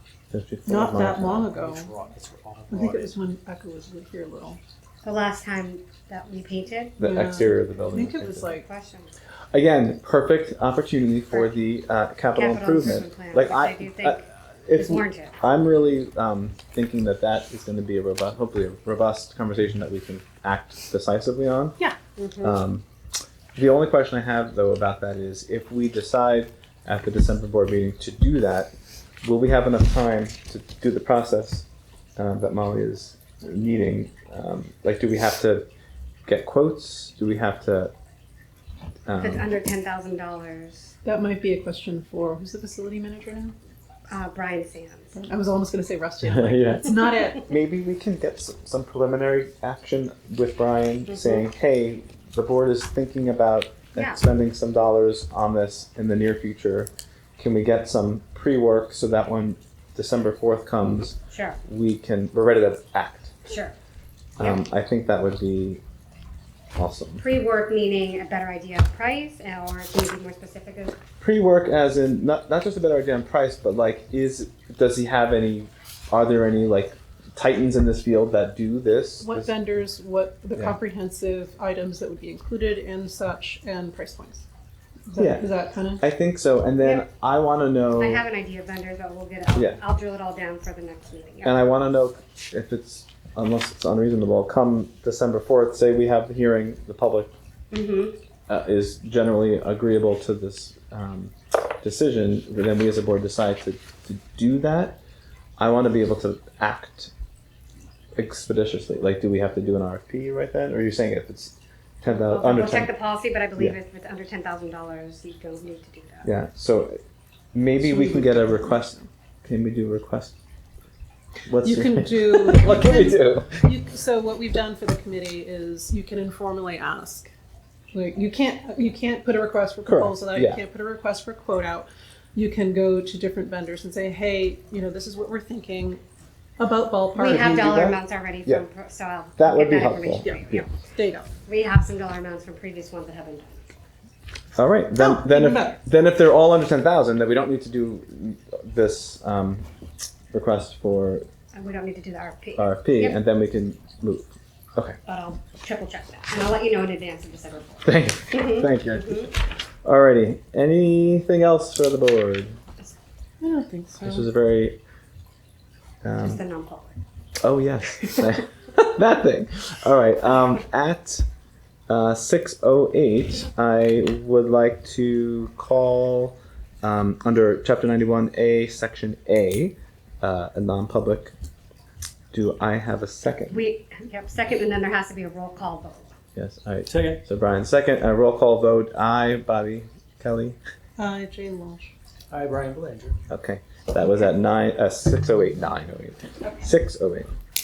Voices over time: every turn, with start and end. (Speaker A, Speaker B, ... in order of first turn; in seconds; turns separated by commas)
Speaker A: 0.3-1.5, Speaker B: 0.7-1.9, Speaker C: 1.1-3.1, Speaker B: 2.7-4.6, Speaker D: 5.0-7.1, Speaker A: 7.0-8.6, Speaker B: 7.1-8.7, Speaker D: 8.6-9.1, Speaker A: 9.5-21.8, Speaker D: 12.3-15.4, Speaker D: 22.2-22.6, Speaker A: 22.4-22.8, Speaker A: 23.6-28.7, Speaker A: 29.2-31.7, Speaker A: 32.2-35.7, Speaker A: 36.3-37.9, Speaker A: 39.0-39.5, Speaker D: 39.2-40.9, Speaker B: 41.0-43.5, Speaker D: 44.1-45.1, Speaker B: 45.1-47.5, Speaker A: 46.2-63.4, Speaker D: 51.1-51.4, Speaker D: 53.9-54.2, Speaker D: 61.3-61.6, Speaker D: 63.5-63.7, Speaker A: 64.4-65.8, Speaker A: 66.8-67.2, Speaker D: 67.2-71.0, Speaker A: 71.2-79.5, Speaker B: 79.2-84.4, Speaker B: 85.1-86.0, Speaker A: 85.2-85.5, Speaker A: 86.0-88.2, Speaker D: 86.8-87.1, Speaker D: 87.9-91.6, Speaker A: 89.5-89.8, Speaker A: 91.4-97.3, Speaker D: 97.7-98.2, Speaker A: 98.5-105.0, Speaker A: 105.6-107.1, Speaker A: 108.2-112.9, Speaker D: 112.1-116.3, Speaker A: 116.2-117.0, Speaker A: 117.5-120.3, Speaker B: 117.8-119.1, Speaker A: 121.5-123.6, Speaker B: 121.6-127.3, Speaker B: 127.9-136.0, Speaker A: 129.8-130.6, Speaker B: 136.6-137.8, Speaker D: 137.1-140.8, Speaker A: 137.3-138.6, Speaker A: 139.4-140.7, Speaker B: 140.2-141.3, Speaker D: 141.4-143.7, Speaker A: 144.6-149.7, Speaker B: 144.9-145.8, Speaker A: 150.3-151.2, Speaker D: 151.5-153.2, Speaker A: 152.6-155.0, Speaker D: 155.1-159.3, Speaker A: 157.8-159.3, Speaker A: 159.8-162.6, Speaker B: 163.4-164.3, Speaker A: 164.0-164.8, Speaker A: 166.0-166.4, Speaker D: 166.2-167.0, Speaker A: 167.4-171.2, Speaker A: 171.9-181.3, Speaker A: 182.3-183.6, Speaker D: 183.5-186.1, Speaker A: 186.3-190.6, Speaker C: 186.9-187.2, Speaker B: 191.0-191.9, Speaker C: 192.3-193.2, Speaker A: 193.3-197.3